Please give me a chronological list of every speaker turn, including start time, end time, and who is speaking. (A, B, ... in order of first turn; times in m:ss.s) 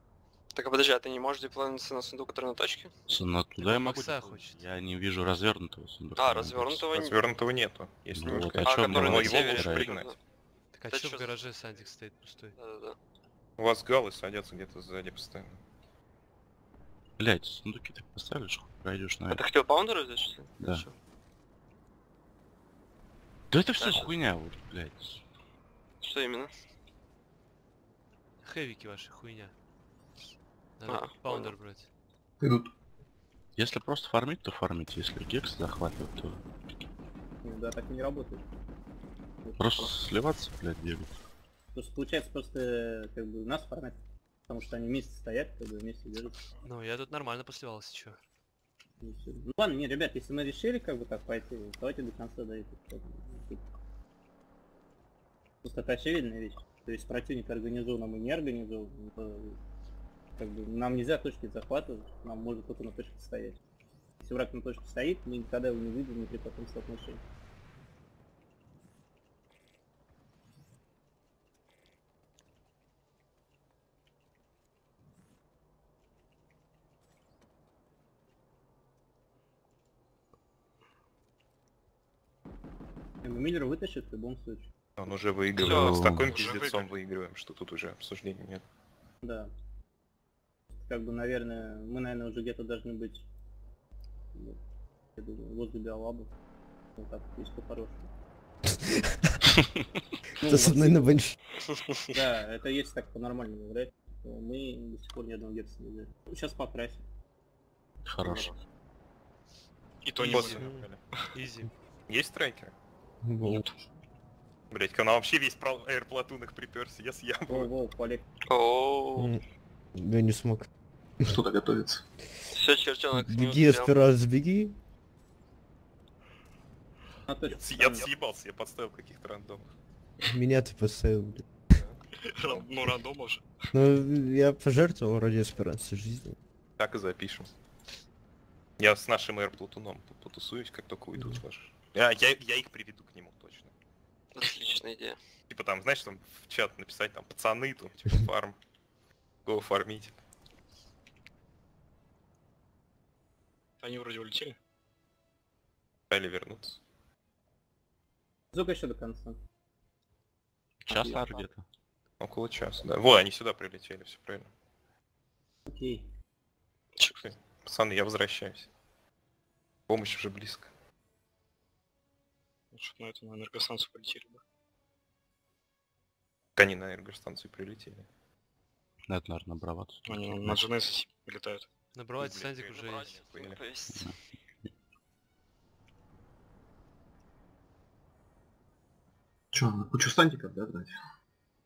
0:00.5-0:02.9 A
0:03.1-0:06.9 B
0:03.6-0:04.6 C
0:06.2-0:07.2 A
0:06.9-0:10.1 D
0:08.1-0:09.9 B
0:08.4-0:10.2 A
0:10.7-0:12.6 C
0:10.9-0:11.3 A
0:12.6-0:13.0 A
0:13.6-0:15.6 D
0:17.2-0:19.4 B
0:19.3-0:20.9 A
0:20.6-0:20.8 B
0:23.5-0:25.2 B
0:23.8-0:24.1 A
0:26.0-0:26.5 A
0:28.4-0:29.5 C
0:30.8-0:31.9 C
0:30.8-0:31.5 A
0:32.4-0:32.7 E
0:33.6-0:36.4 B
0:37.4-0:38.4 F
0:39.6-0:41.2 B
0:41.7-0:46.4 F
0:46.6-0:48.2 C
0:49.0-0:53.6 F
0:55.6-0:59.6 F
1:00.4-1:03.6 F
1:04.2-1:07.2 F
1:23.2-1:24.7 F
1:25.0-1:28.6 D
1:25.6-1:26.0 A
1:25.6-1:26.3 B
1:26.2-1:26.9 G
1:29.2-1:29.5 F
1:30.8-1:33.2 F
1:34.3-1:34.6 F
1:35.2-1:36.3 F
1:37.0-1:38.1 F
1:38.7-1:39.3 H
1:40.4-1:41.1 F
1:40.4-1:41.3 H
1:42.1-1:47.0 F
1:48.0-1:48.5 B
1:50.0-1:50.8 G
1:50.2-1:51.0 D
1:50.6-1:50.8 H
1:51.3-1:51.7 C
1:52.1-1:52.7 D
1:53.2-1:53.7 H
1:53.4-1:53.8 G
1:54.7-1:57.7 D
1:57.5-1:58.2 F
1:58.5-1:59.4 A
2:00.0-2:00.7 H
2:01.2-2:02.0 E
2:02.5-2:04.0 A
2:03.1-2:04.8 H
2:07.3-2:08.1 F
2:07.5-2:09.7 D
2:10.3-2:11.6 H
2:11.7-2:12.9 D
2:12.2-2:13.6 G
2:13.7-2:16.3 H
2:16.8-2:17.5 D
2:18.8-2:23.7 D
2:24.3-2:25.2 A
2:25.5-2:28.6 D
2:29.4-2:30.2 D
2:33.8-2:34.6 G
2:36.1-2:36.8 D
2:38.5-2:39.4 F
2:40.8-2:41.6 B
2:40.9-2:41.4 F
2:42.2-2:44.5 D
2:45.7-2:46.1 F
2:47.0-2:47.3 A
2:47.2-2:48.7 D
2:49.9-2:50.7 D
2:52.7-2:54.4 G
2:56.6-2:58.0 D
2:59.1-3:00.6 B
3:00.0-3:01.7 G
3:01.9-3:03.1 C
3:02.2-3:03.6 D
3:02.9-3:04.1 A
3:09.5-3:10.9 E